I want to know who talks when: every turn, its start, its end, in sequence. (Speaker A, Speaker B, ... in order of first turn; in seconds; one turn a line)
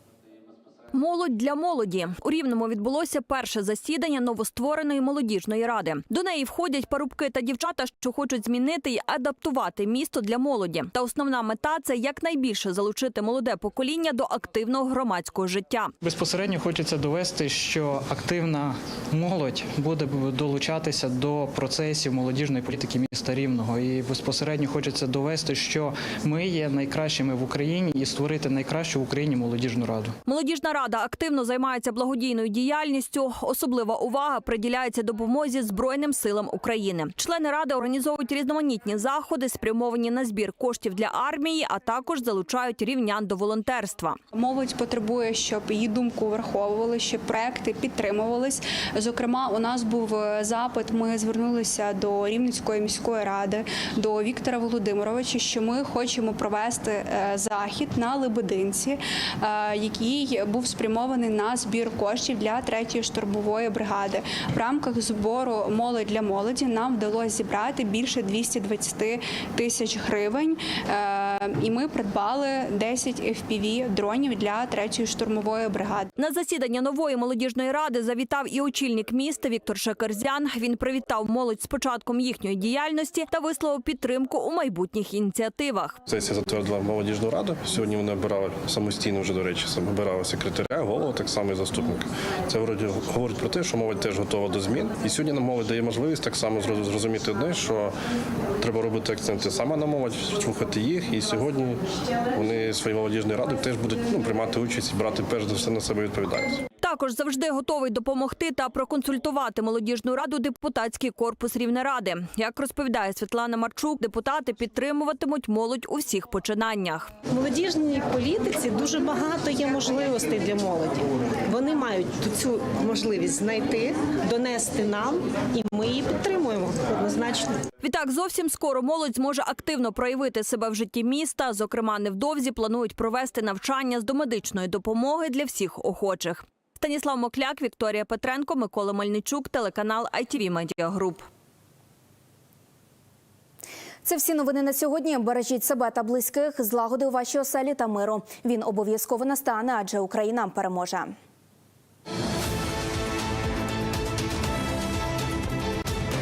Speaker A: 0.9-15.9
Speaker B: 16.0-30.1
Speaker A: 30.2-44.2
Speaker C: 44.3-76.1
Speaker A: 76.2-86.0
Speaker D: 86.1-97.9
Speaker D: 98.6-101.8
Speaker D: 102.3-106.6
Speaker A: 106.8-117.1
Speaker E: 117.3-121.0
Speaker E: 121.5-127.4
Speaker A: 127.8-141.2
Speaker F: 144.0-151.1